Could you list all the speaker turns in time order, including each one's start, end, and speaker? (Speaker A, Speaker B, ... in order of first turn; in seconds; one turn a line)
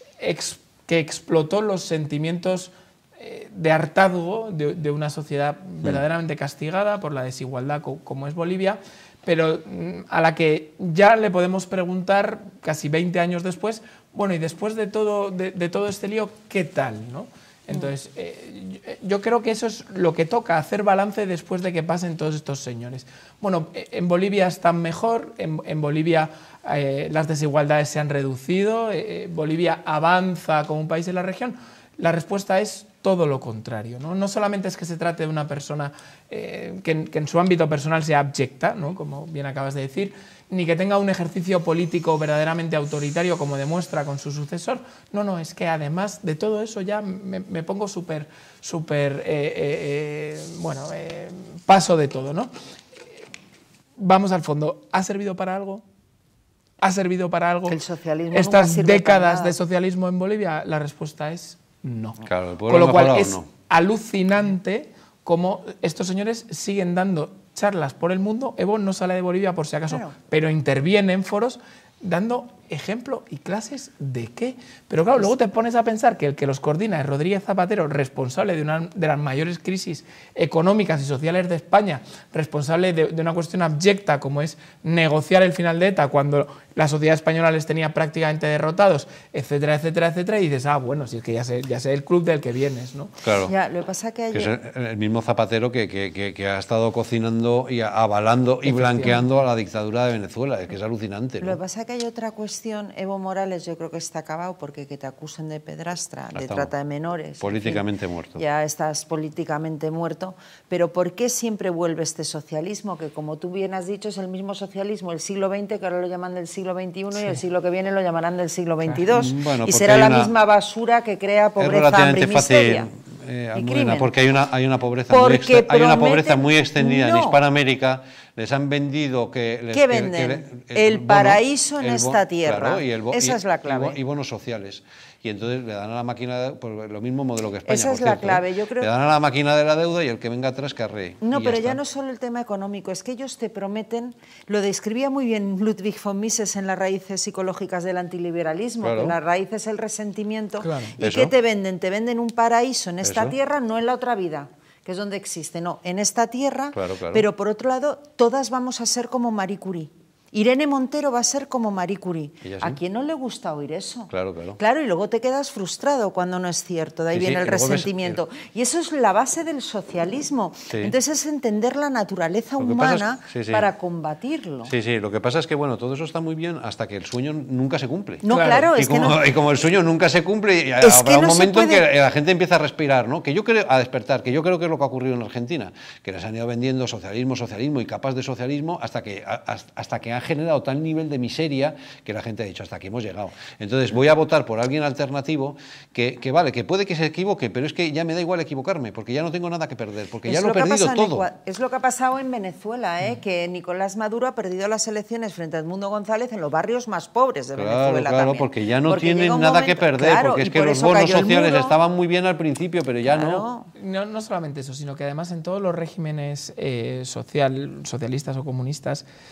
Speaker A: 0.2-52.5
Speaker A: 54.0-55.8
Speaker A: 56.8-57.8
Speaker B: 57.7-59.6
Speaker A: 58.3-93.1
Speaker C: 62.2-63.5
Speaker B: 69.9-70.2
Speaker C: 93.2-93.5
Speaker B: 93.4-94.5
Speaker C: 94.3-101.6
Speaker A: 98.6-99.3
Speaker B: 101.4-107.8
Speaker C: 106.3-106.7
Speaker C: 107.4-108.4
Speaker B: 108.4-122.9
Speaker C: 119.1-120.3
Speaker C: 121.6-141.8
Speaker B: 123.5-124.1
Speaker B: 125.1-127.4
Speaker B: 129.7-134.0
Speaker B: 137.7-138.9
Speaker B: 141.2-174.7
Speaker C: 148.8-149.2
Speaker A: 150.6-150.9
Speaker C: 151.0-151.3
Speaker C: 153.0-153.3
Speaker C: 156.7-157.3
Speaker C: 162.4-162.8
Speaker C: 164.1-164.6
Speaker C: 167.1-168.2
Speaker C: 172.6-173.7
Speaker C: 174.7-201.3
Speaker B: 178.2-179.3
Speaker A: 178.3-178.7
Speaker B: 180.8-181.8
Speaker B: 200.3-211.8
Speaker C: 207.6-213.4
Speaker B: 213.1-213.7
Speaker A: 213.8-219.1